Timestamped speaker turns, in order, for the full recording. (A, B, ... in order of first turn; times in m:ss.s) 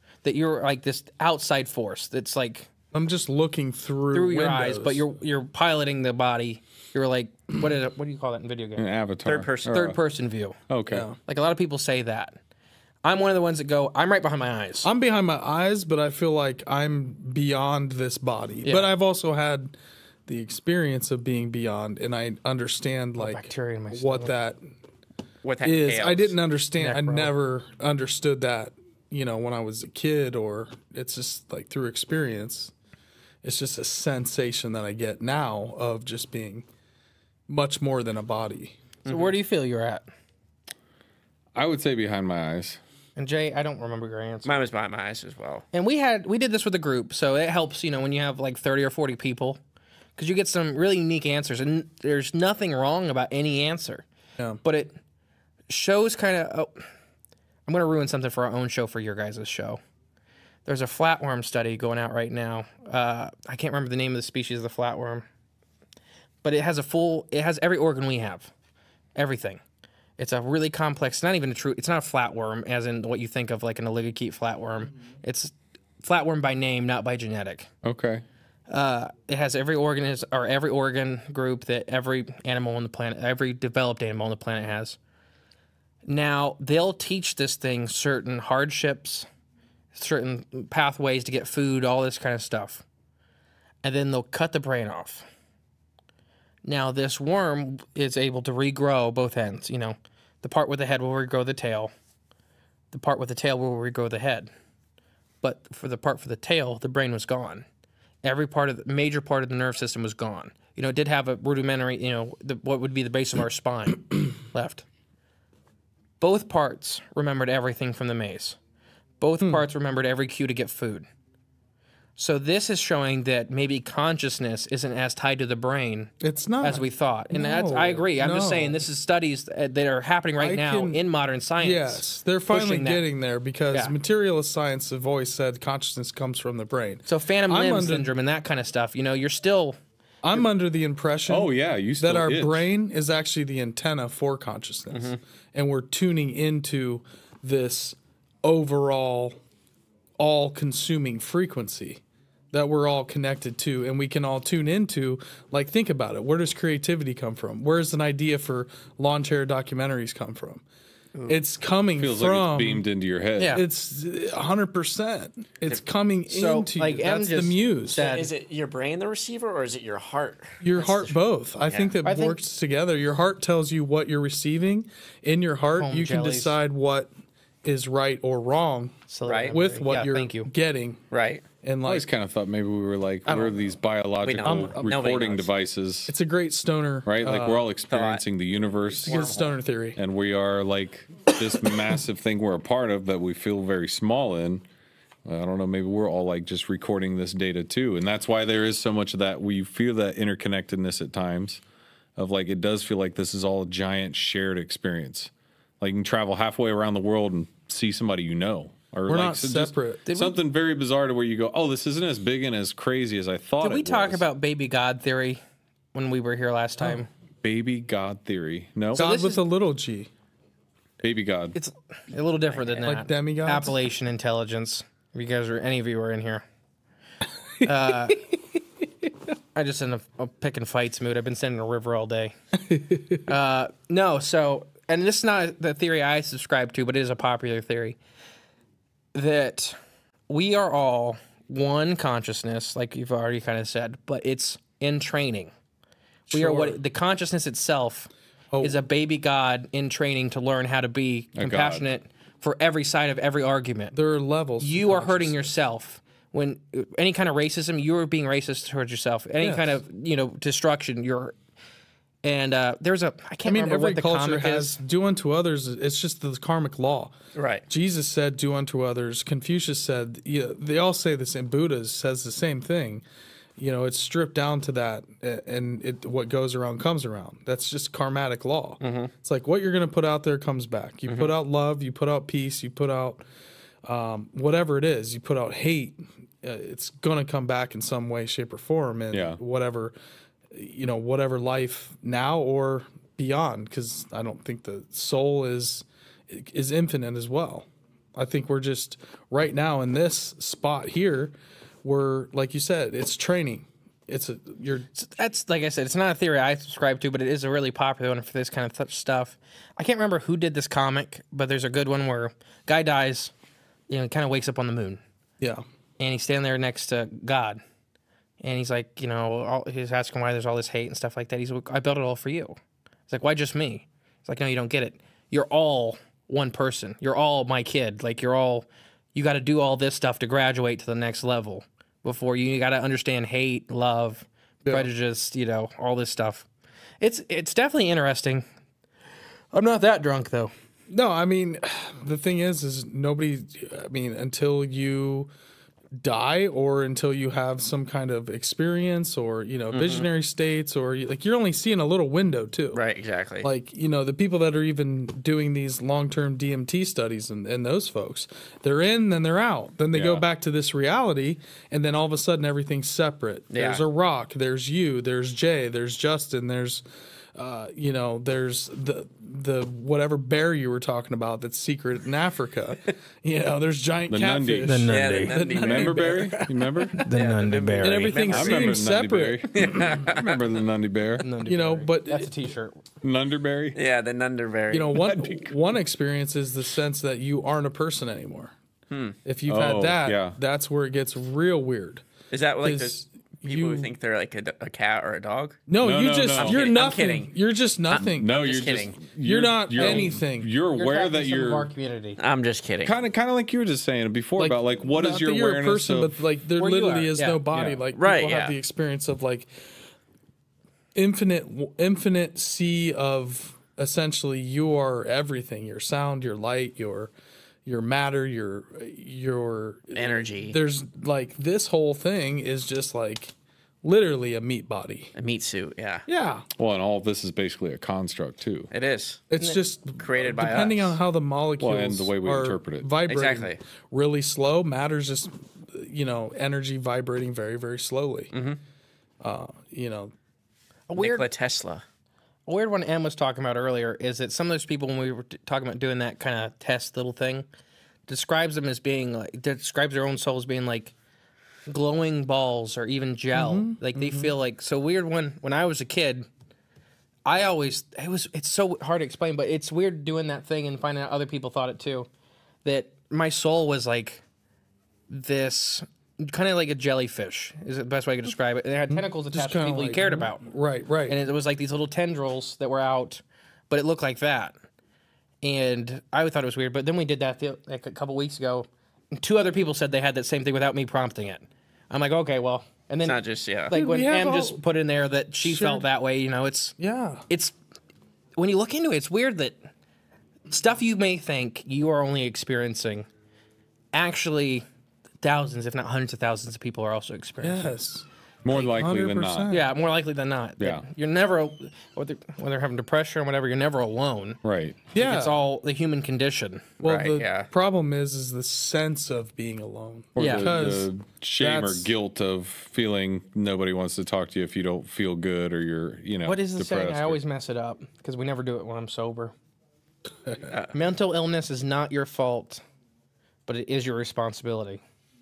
0:00.2-0:02.7 A
0:02.9-0:05.1 B
0:04.1-0:08.9 A
0:08.8-0:10.0 C
0:09.2-0:09.8 D
0:09.7-0:10.6 A
0:10.7-0:11.0 C
0:10.9-0:11.2 B
0:11.3-0:12.4 A
0:13.0-0:14.9 A
0:14.8-0:19.8 B
0:18.6-0:18.9 A
0:20.3-0:24.6 B
0:23.2-0:24.3 A
0:25.4-0:26.4 D
0:25.6-0:32.7 B
0:26.8-0:27.3 A
0:33.4-0:36.7 B
0:37.5-0:38.8 B
0:39.0-0:39.4 D
0:39.1-0:40.0 A
0:41.6-0:42.8 C
0:43.2-0:44.6 A
0:44.4-0:45.6 D
0:45.7-0:49.6 A
0:50.2-0:54.0 A
0:54.6-0:55.0 A
0:55.7-0:56.9 A
0:57.7-0:59.8 A
1:00.7-1:05.2 A
1:06.4-1:08.5 A
1:09.2-1:09.6 A
1:10.2-1:17.7 A
1:17.8-1:18.2 C
1:18.7-1:25.0 A
1:26.1-1:29.3 A
1:29.9-1:32.8 A
1:33.8-1:35.3 A
1:36.6-1:41.9 A
1:42.9-1:44.5 A
1:45.4-1:47.7 A
1:48.2-1:54.8 A
1:56.2-1:58.6 A
1:59.2-2:01.1 A
2:02.2-2:13.0 A
2:06.2-2:08.8 B
2:10.4-2:11.0 B
2:11.6-2:18.1 B
2:17.1-2:19.8 A
2:20.2-2:29.4 B
2:21.3-2:22.7 C
2:24.9-2:25.2 D
2:30.2-2:32.0 B
2:32.5-2:40.6 B
2:41.3-2:42.8 B
2:42.0-2:43.6 C
2:43.4-2:43.6 A
2:43.5-2:48.0 B
2:46.3-2:48.3 A
2:47.9-2:52.0 D
2:50.6-2:57.1 B
2:52.0-2:52.4 A
2:55.8-2:56.6 A
2:57.6-3:01.0 B
2:59.1-3:00.5 A
2:59.3-2:59.6 D
3:01.1-3:01.4 D
3:01.6-3:02.1 B
3:01.8-3:06.1 C
3:03.3-3:03.6 B
3:04.2-3:05.5 D
3:04.4-3:05.0 B
3:06.1-3:07.6 B
3:07.1-3:09.4 C
3:07.9-3:08.2 D
3:09.1-3:10.0 B
3:09.1-3:09.4 D
3:10.0-3:14.6 C
3:15.2-3:21.6 C
3:22.2-3:34.2 C
3:29.1-3:30.1 B
3:30.1-3:30.4 A
3:33.6-3:35.4 A
3:35.9-3:37.1 A
3:37.4-3:39.1 C
3:39.0-3:40.1 B
3:39.0-3:39.4 A
3:41.0-3:41.6 C
3:41.6-3:46.4 A
3:42.8-3:43.8 B
3:47.6-3:48.2 A
3:49.6-3:52.3 A
3:52.7-3:53.2 B
3:53.3-3:58.0 A
3:59.1-3:59.8 A
4:00.3-4:05.5 A
4:06.3-4:06.8 B
4:06.3-4:14.0 A
4:08.5-4:08.8 B
4:11.4-4:11.8 C
4:13.9-4:15.4 B
4:14.6-4:21.4 A
4:19.4-4:19.7 B
4:22.2-4:24.8 A
4:23.4-4:27.1 B
4:27.4-4:27.6 D
4:27.7-4:33.0 B
4:33.6-4:43.2 B
4:38.8-4:39.1 D
4:41.1-4:41.3 D
4:43.8-4:49.9 B
4:49.1-4:49.4 C
4:50.5-5:04.9 B
5:05.0-5:13.3 A
5:13.9-5:15.0 A
5:16.0-5:17.6 A
5:18.4-5:36.5 A
5:34.6-5:34.9 B
5:37.0-5:38.5 A
5:39.5-5:40.5 A
5:40.9-5:45.3 B
5:46.0-5:52.8 B
5:49.7-5:50.1 D
5:52.7-5:53.5 D
5:53.4-6:06.8 B
5:59.9-6:00.2 C
6:03.5-6:03.8 D
6:07.4-6:17.0 B
6:14.1-6:17.0 C
6:14.6-6:15.4 A
6:14.9-6:16.2 D
6:17.0-6:18.8 D
6:17.0-6:18.2 A
6:17.8-6:20.0 B
6:18.2-6:21.3 C
6:19.5-6:20.5 D
6:21.2-6:22.8 A
6:21.5-6:22.3 B
6:23.0-6:23.8 C
6:23.8-6:25.1 D
6:24.7-6:28.5 B
6:25.0-6:25.6 C
6:28.9-6:29.2 D
6:29.2-6:32.1 B
6:29.5-6:30.4 C
6:32.3-6:35.6 D
6:32.6-6:33.9 B
6:35.7-6:38.3 B
6:35.8-6:36.7 C
6:36.3-6:37.4 D
6:37.9-6:39.0 D
6:37.9-6:41.7 C
6:39.2-6:40.5 B
6:40.8-6:42.2 A
6:42.2-6:43.0 D
6:42.8-6:46.2 C
6:44.4-6:49.6 B
6:46.6-6:47.4 A
6:47.5-6:47.8 C
6:48.0-6:48.6 D
6:51.0-6:57.1 B
6:57.7-7:05.1 B
7:00.0-7:00.6 D
7:05.2-7:06.1 D
7:06.1-7:06.5 B
7:06.6-7:08.7 C
7:08.7-7:09.2 D
7:09.3-7:18.3 B
7:10.0-7:11.0 D
7:11.6-7:12.9 C
7:13.1-7:13.6 D
7:18.3-7:18.6 D
7:19.2-7:20.1 B
7:20.9-7:21.2 A
7:21.0-7:21.8 D
7:22.5-7:27.5 A
7:28.1-7:30.9 A
7:31.7-7:36.3 A
7:33.3-7:34.3 B
7:37.3-7:42.1 A
7:42.6-7:44.2 A
7:45.1-7:50.4 A
7:48.9-7:51.2 B
7:51.1-7:54.6 A
7:55.4-8:03.2 A
8:03.0-8:03.8 D
8:03.7-8:06.8 A
8:03.7-8:04.6 B
8:05.4-8:05.8 B
8:06.8-8:07.3 B
8:07.3-8:07.5 A
8:08.4-8:09.6 A
8:10.5-8:13.1 A
8:13.9-8:14.6 A
8:15.2-8:17.7 A
8:17.4-8:19.6 B
8:18.4-8:19.5 C
8:19.5-8:24.4 A
8:24.4-8:24.9 C
8:24.9-8:25.4 B
8:25.0-8:26.7 A
8:26.8-8:31.9 B
8:26.8-8:27.5 D
8:30.2-8:37.2 C
8:30.2-8:30.6 A
8:36.2-8:39.3 A
8:40.7-8:42.6 A
8:43.5-8:44.8 A